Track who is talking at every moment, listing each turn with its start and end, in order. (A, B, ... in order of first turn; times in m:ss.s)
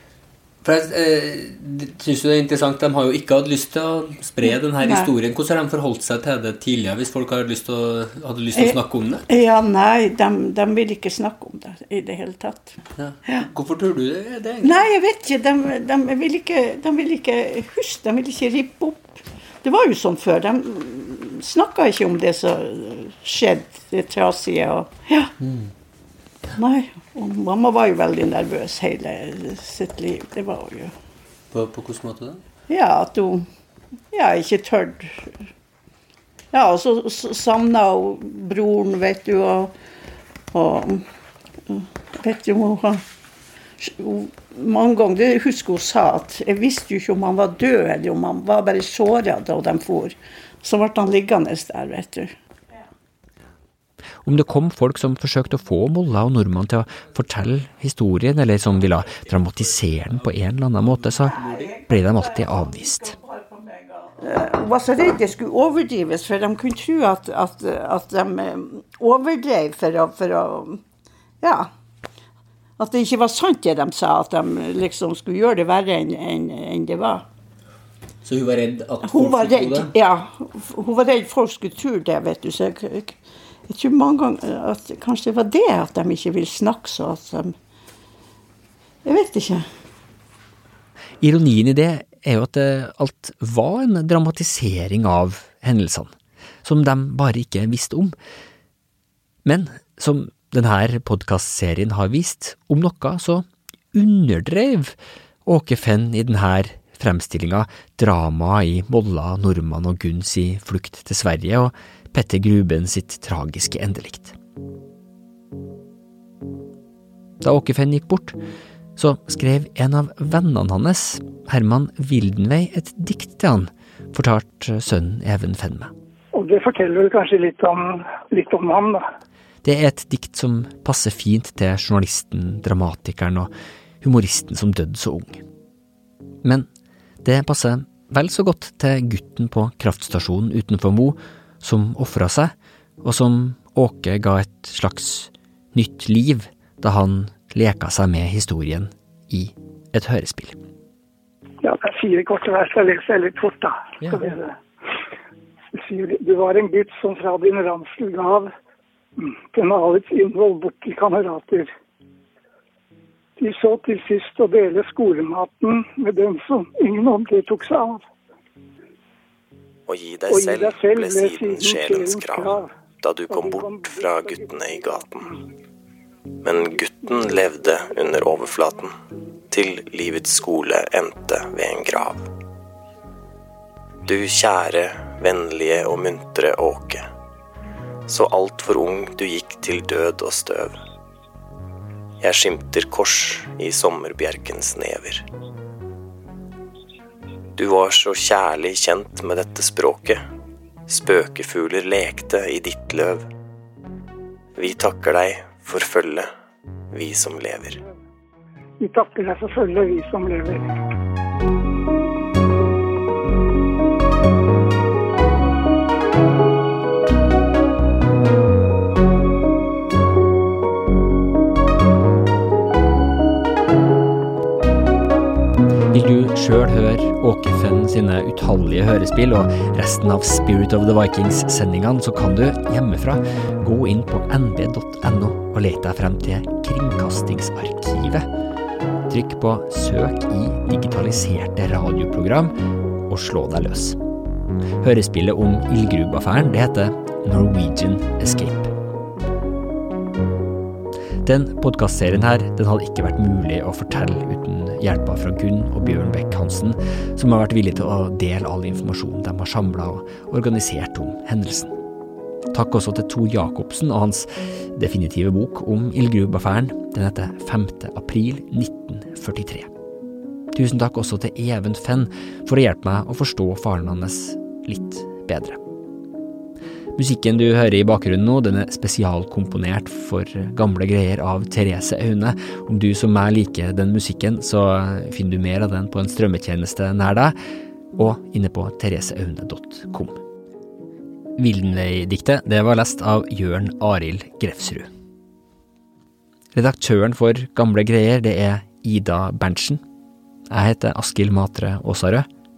0:00.6-0:09.2 A
0:04.4-0:05.1 B
0:08.5-0:13.5 B
0:13.0-0:14.9 A
0:14.6-0:25.3 B
0:25.4-0:25.7 A
0:26.6-0:30.9 B
0:31.5-0:32.4 A
0:32.7-0:33.5 B
0:34.1-0:35.3 B
0:36.5-0:39.7 B
0:40.5-0:41.0 B
0:41.7-0:43.0 B
0:43.8-0:52.3 B
0:54.2-1:03.2 C
1:01.0-1:01.6 A
1:01.3-1:10.8 B
1:11.4-1:11.7 B
1:12.8-1:17.2 B
1:18.2-1:19.9 A
1:19.0-1:23.2 B
1:23.7-1:27.5 B
1:29.0-1:29.7 B
1:31.2-1:36.1 C
1:36.6-1:38.1 C
1:39.4-1:54.3 C
1:57.4-1:58.3 C
1:59.0-2:05.9 C
2:06.3-2:09.0 D
2:09.6-2:15.4 C
2:17.2-2:30.6 C
2:31.6-2:34.6 D
2:35.7-2:38.5 D
2:39.2-2:41.7 D
2:43.4-2:48.1 D
2:49.9-2:55.3 E
2:50.3-2:52.7 D
2:53.3-2:55.3 D
2:56.4-2:58.9 E
2:59.5-3:02.2 E
3:04.0-3:07.0 E
3:08.1-3:10.8 E
3:12.2-3:15.2 E
3:17.6-3:20.2 E
3:20.9-3:23.2 E
3:24.6-3:26.3 E
3:26.9-3:27.8 E
3:28.8-3:30.7 D
3:45.9-3:58.3 C
3:59.1-4:04.0 C
4:04.8-4:08.7 C
4:11.2-4:21.7 C
4:22.5-4:29.7 C
4:30.5-4:35.6 C
4:36.9-4:47.3 C
4:47.9-4:50.2 C
4:51.4-4:54.9 C
4:56.5-4:59.8 C
5:00.5-5:02.3 C